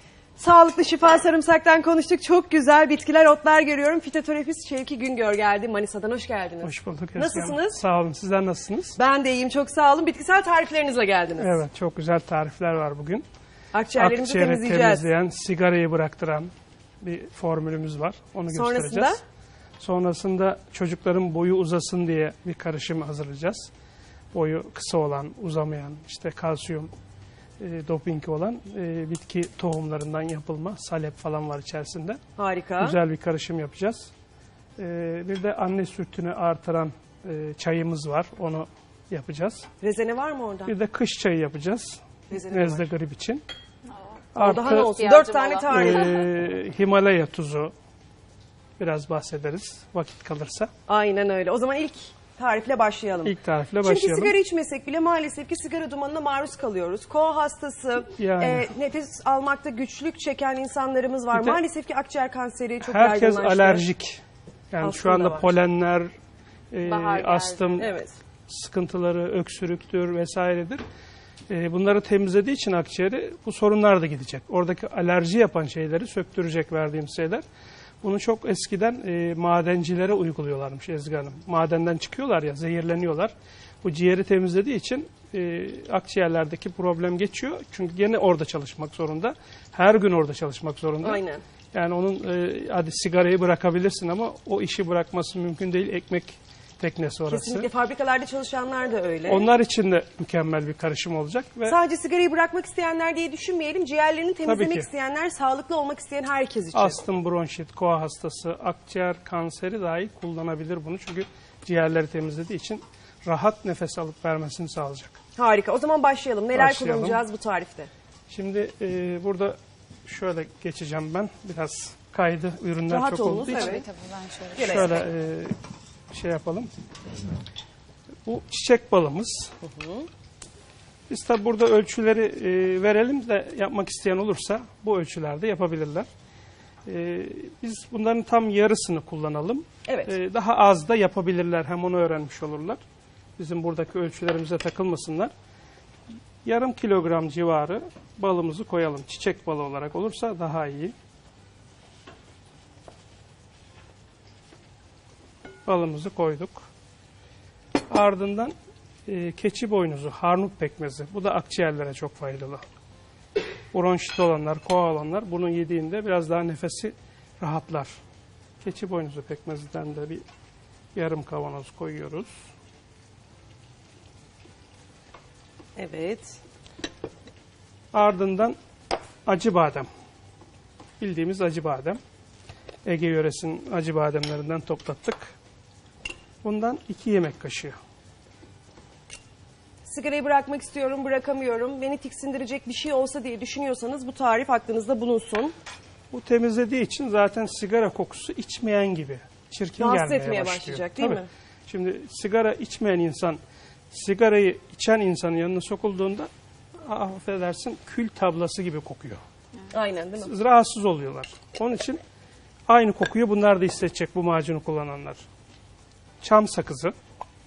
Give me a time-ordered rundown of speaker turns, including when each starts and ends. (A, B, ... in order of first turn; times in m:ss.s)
0:00.4-0:07.8 A
0:06.6-0:09.0 B
0:09.0-0:11.6 A
0:11.4-0:13.2 B
0:13.7-0:15.1 A
0:14.0-0:19.2 B
0:18.5-0:19.2 A
0:19.8-0:23.7 B
0:24.3-0:26.9 B
0:27.6-0:32.2 B
0:32.4-0:33.0 A
0:32.8-0:34.1 B
0:34.8-0:39.7 B
0:39.8-0:40.7 A
0:40.7-0:43.4 B
0:42.3-0:42.9 A
0:44.2-0:46.2 C
0:44.4-0:45.0 B
0:44.4-0:46.2 A
0:45.7-0:47.7 B
0:48.8-0:50.7 B
0:50.9-1:03.9 A
0:53.2-0:54.4 B
0:58.2-0:58.7 B
1:01.3-1:01.6 B
1:02.8-1:06.1 B
1:04.8-1:05.6 A
1:06.7-1:07.9 B
1:06.8-1:07.9 C
1:07.8-1:08.2 A
1:08.5-1:10.8 B
1:11.5-1:17.4 B
1:18.0-1:31.2 B
1:31.0-1:31.4 A
1:31.7-1:37.7 B
1:37.3-1:39.5 A
1:39.3-1:41.8 B
1:41.7-1:47.0 A
1:44.4-1:44.9 B
1:46.7-1:55.2 B
1:55.4-1:57.9 A
1:56.5-1:57.2 B
1:58.3-2:03.8 B
2:02.9-2:03.9 A
2:03.5-2:05.0 C
2:04.6-2:05.0 A
2:04.6-2:05.6 B
2:06.1-2:06.7 B
2:08.3-2:09.5 B
2:09.6-2:10.1 A
2:11.1-2:16.1 B
2:16.9-2:22.8 B
2:19.9-2:20.1 A
2:23.4-2:25.3 B
2:26.4-2:30.9 B
2:35.6-2:36.7 B
2:37.9-2:38.5 B
2:39.1-2:42.6 B
2:43.7-2:47.9 B
2:48.6-2:50.2 B
2:50.9-2:52.3 B
2:55.8-2:56.4 A
2:57.9-2:58.6 B
2:59.3-2:59.9 B
3:01.0-3:02.0 B
3:02.8-3:05.4 B
3:06.4-3:07.8 B
3:09.9-3:15.6 A
3:16.1-3:26.3 B
3:19.8-3:21.3 A
3:26.8-3:29.2 B
3:29.7-3:30.3 A
3:30.2-3:32.0 B
3:32.7-3:35.2 B
3:36.2-3:36.9 B